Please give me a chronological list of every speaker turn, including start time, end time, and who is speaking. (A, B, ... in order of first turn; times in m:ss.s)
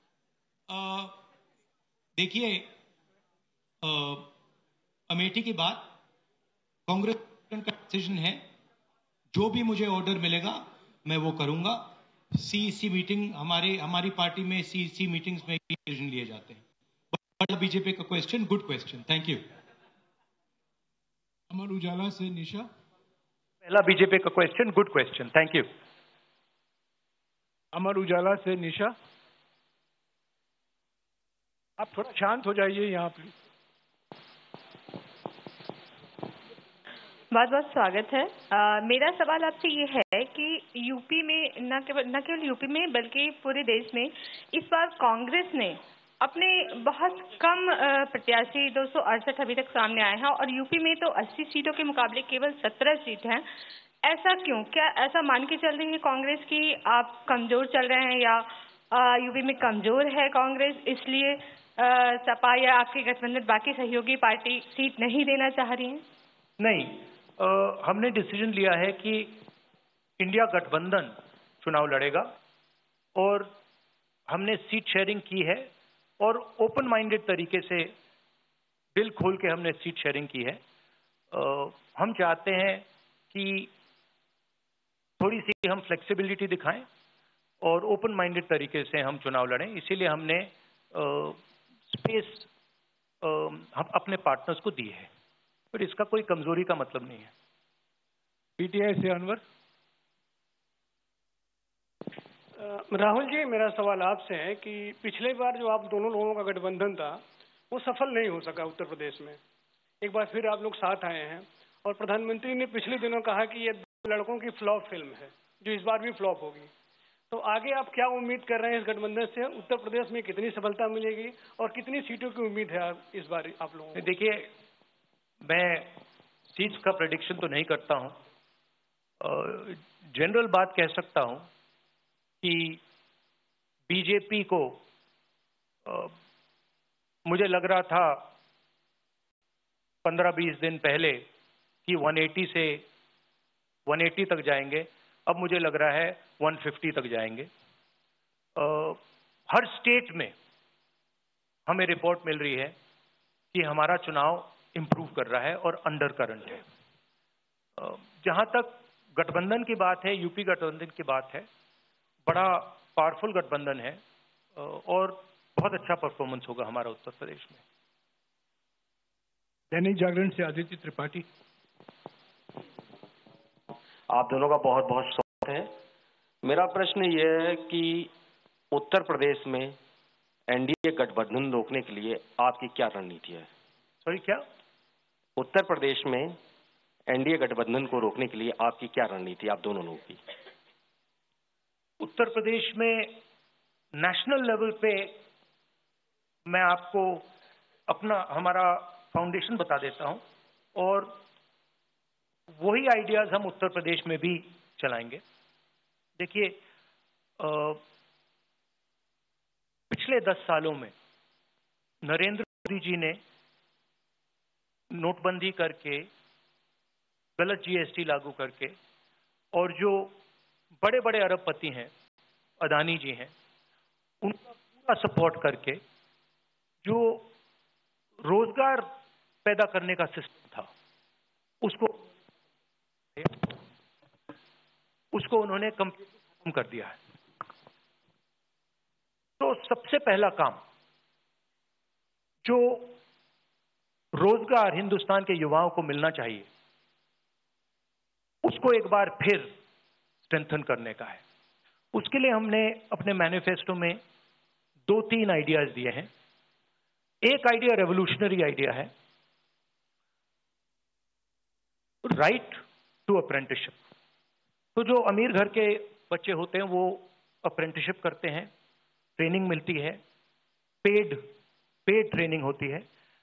0:00.7-0:01.2 A
0:02.2-0:02.7 A
0:03.8-0:04.3 A
0:05.1-0:05.9 A
0:06.9-0:08.4 A
0:09.3-0:16.6 A
0:17.1-0:19.4 A
0:21.5-0:22.7 B
0:23.6-0:25.7 C
0:27.7-0:28.9 B
0:31.8-0:33.3 B
0:37.3-0:53.4 D
0:54.0-1:06.0 D
1:06.6-1:09.4 C
1:10.2-1:12.3 C
1:13.1-1:13.5 C
1:14.3-1:17.9 C
1:19.0-1:20.6 C
1:21.3-1:23.7 C
1:25.2-1:26.8 C
1:27.6-1:32.5 C
1:33.2-1:35.1 C
1:35.7-1:37.3 C
1:38.6-1:39.4 B
1:42.6-1:49.4 E
1:50.0-1:56.7 E
1:57.3-2:04.0 E
2:04.0-2:04.5 C
2:05.4-2:06.0 C
2:06.5-2:08.2 C
2:09.2-2:11.5 C
2:12.4-2:12.8 C
2:13.9-2:14.8 C
2:15.8-2:16.1 C
2:17.2-2:18.3 C
2:20.0-2:21.2 C
2:21.8-2:22.8 C
2:23.9-2:27.5 C
2:28.6-2:30.3 C
2:31.7-2:32.7 C
2:33.5-2:36.6 C
2:37.8-2:41.5 C
2:42.3-2:44.0 C
2:44.6-2:47.6 C
2:49.7-2:51.2 B
2:54.1-2:55.7 F
2:56.4-2:58.1 F
2:58.7-2:59.8 F
3:00.5-3:03.5 F
3:04.0-3:04.4 C
3:05.4-3:06.4 F
3:07.1-3:10.2 F
3:12.0-3:13.2 C
3:13.9-3:15.2 C
3:16.5-3:17.2 C
3:17.9-3:20.2 C
3:20.8-3:21.2 C
3:22.5-3:25.2 C
3:26.2-3:26.6 C
3:27.4-3:27.8 C
3:29.9-3:30.9 C
3:32.0-3:33.2 C
3:34.9-3:36.1 C
3:37.4-3:38.7 C
3:39.5-3:40.1 C
3:40.8-3:41.9 C
3:42.6-3:43.3 C
3:44.2-3:45.8 C
3:46.8-3:47.2 C
3:48.2-3:48.8 C
3:49.4-3:50.7 C
3:51.6-3:52.0 C
3:53.2-3:53.6 C
3:55.1-3:57.0 C
3:59.4-4:00.6 C
4:02.4-4:03.0 C
4:04.1-4:06.5 C
4:08.4-4:09.5 C
4:10.2-4:11.2 C
4:11.9-4:14.0 C
4:14.9-4:16.1 C
4:17.2-4:18.9 C
4:22.0-4:23.8 C
4:24.8-4:28.5 C
4:29.2-4:30.0 C
4:30.8-4:31.2 C
4:31.8-4:32.8 C